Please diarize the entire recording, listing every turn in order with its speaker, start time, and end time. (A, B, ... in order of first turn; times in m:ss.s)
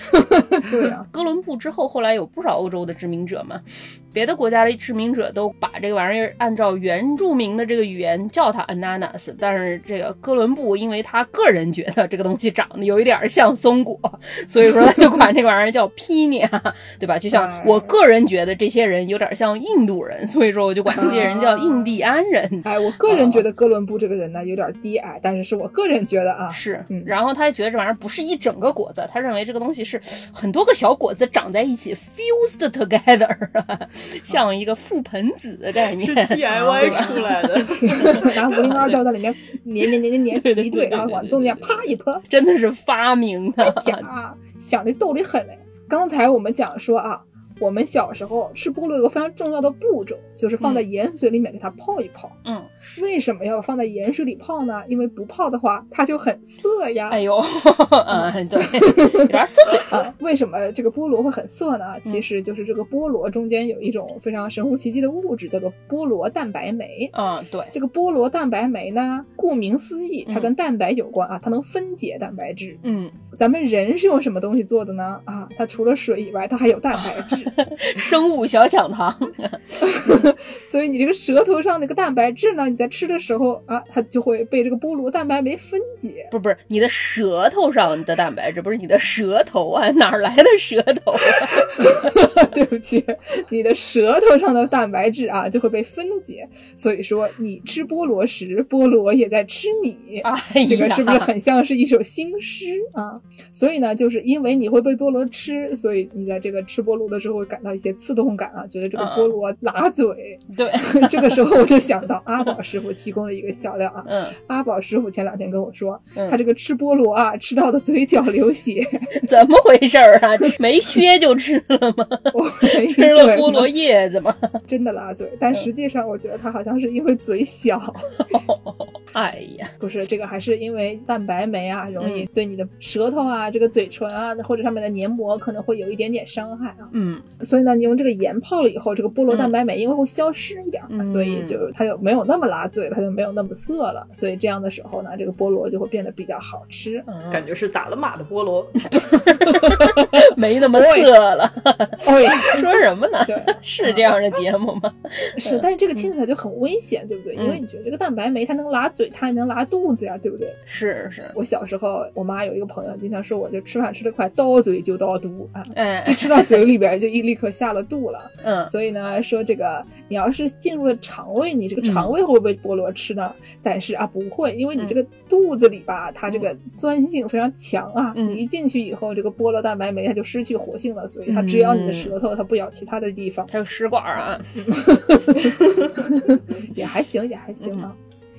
0:00.4-0:01.1 A
0:00.7-0:23.4 B
0:17.3-0:17.9 A
0:20.9-0:22.0 A
0:22.6-0:27.1 A
0:26.5-0:39.0 B
0:36.0-0:38.4 C
0:37.8-0:42.2 A
0:40.3-0:44.0 B
0:43.6-0:57.2 A
0:57.1-1:00.0 B
0:58.1-0:59.3 A
0:59.9-1:07.1 A
1:07.1-1:07.7 B
1:07.7-1:12.8 A
1:10.3-1:10.5 B
1:12.8-1:13.2 B
1:13.3-1:17.5 A
1:17.0-1:20.2 B
1:19.8-1:26.3 A
1:26.3-1:32.0 B
1:31.8-1:59.2 A
1:40.2-1:41.3 B
1:49.0-1:49.3 B
1:50.5-1:51.4 B
1:54.1-1:54.4 B
1:59.2-2:04.6 B
2:02.3-2:03.7 A
2:04.7-2:08.2 A
2:08.3-2:09.7 B
2:09.8-2:27.2 A
2:12.0-2:12.3 B
2:16.9-2:17.3 B
2:20.9-2:21.6 B
2:27.3-2:28.8 C
2:28.9-2:35.7 B
2:29.4-2:31.1 A
2:32.0-2:32.7 A
2:33.2-2:34.1 A
2:35.4-2:40.6 A
2:37.4-2:37.6 B
2:40.7-2:41.4 B
2:41.3-3:03.5 A
2:45.7-2:46.7 B
2:48.4-2:48.7 B
2:51.8-2:52.1 B
2:58.2-2:58.4 B
3:01.3-3:02.2 B
3:03.5-3:04.6 B
3:04.6-3:08.0 A
3:05.3-3:05.9 B
3:07.6-3:07.9 B